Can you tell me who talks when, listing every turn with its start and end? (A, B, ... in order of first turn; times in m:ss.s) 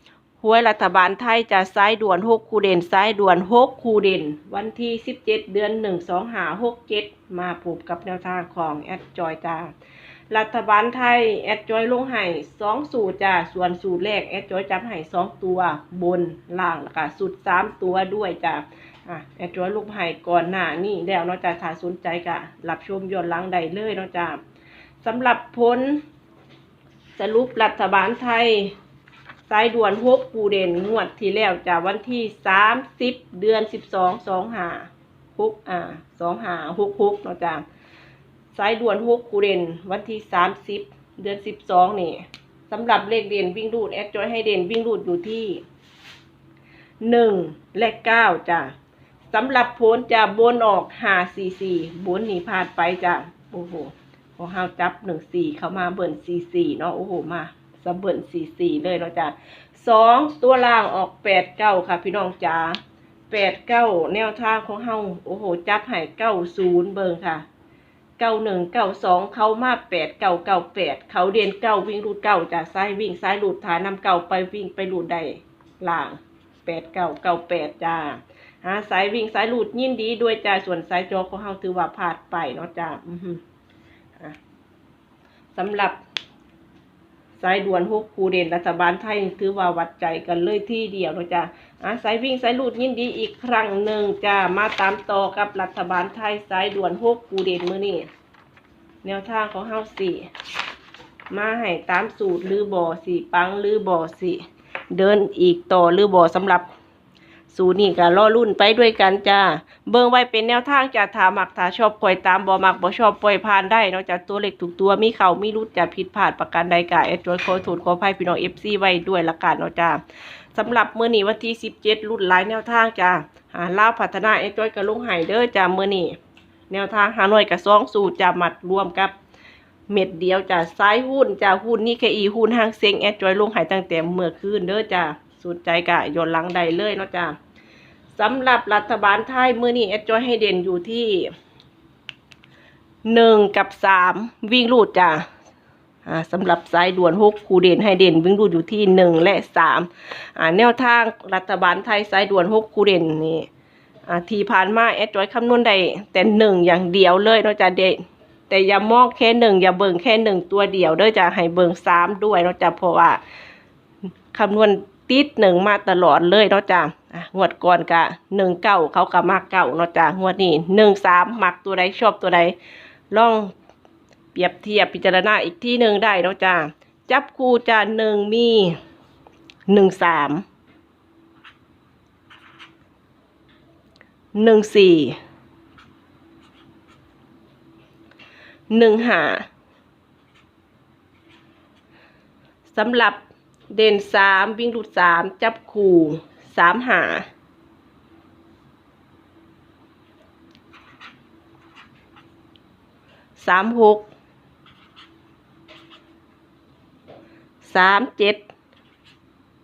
0:00.4-0:09.7 A
0:10.3-0:24.4 A
0:25.0-0:26.0 A
0:27.2-0:28.7 A
0:29.5-0:37.6 A
0:38.5-0:45.6 A
0:47.0-0:48.7 A
0:49.3-1:07.4 A
1:08.2-1:23.4 A
1:25.6-1:26.0 A
1:27.4-1:38.1 A
1:39.0-1:40.3 A
1:41.3-1:46.7 A
1:47.5-2:00.0 A
2:00.6-2:06.2 A
2:06.7-2:09.2 A
2:09.9-2:17.4 A
2:18.1-2:21.3 A
2:23.1-2:25.3 A
2:26.0-2:33.5 A
2:34.1-2:43.2 A
2:44.3-2:52.6 A
2:53.1-2:53.5 A
2:54.4-2:58.8 A
2:59.7-3:00.4 A
3:04.4-3:05.2 A
3:08.7-3:09.5 A
3:12.7-3:17.3 A
3:23.4-3:24.1 A
3:27.6-3:28.5 A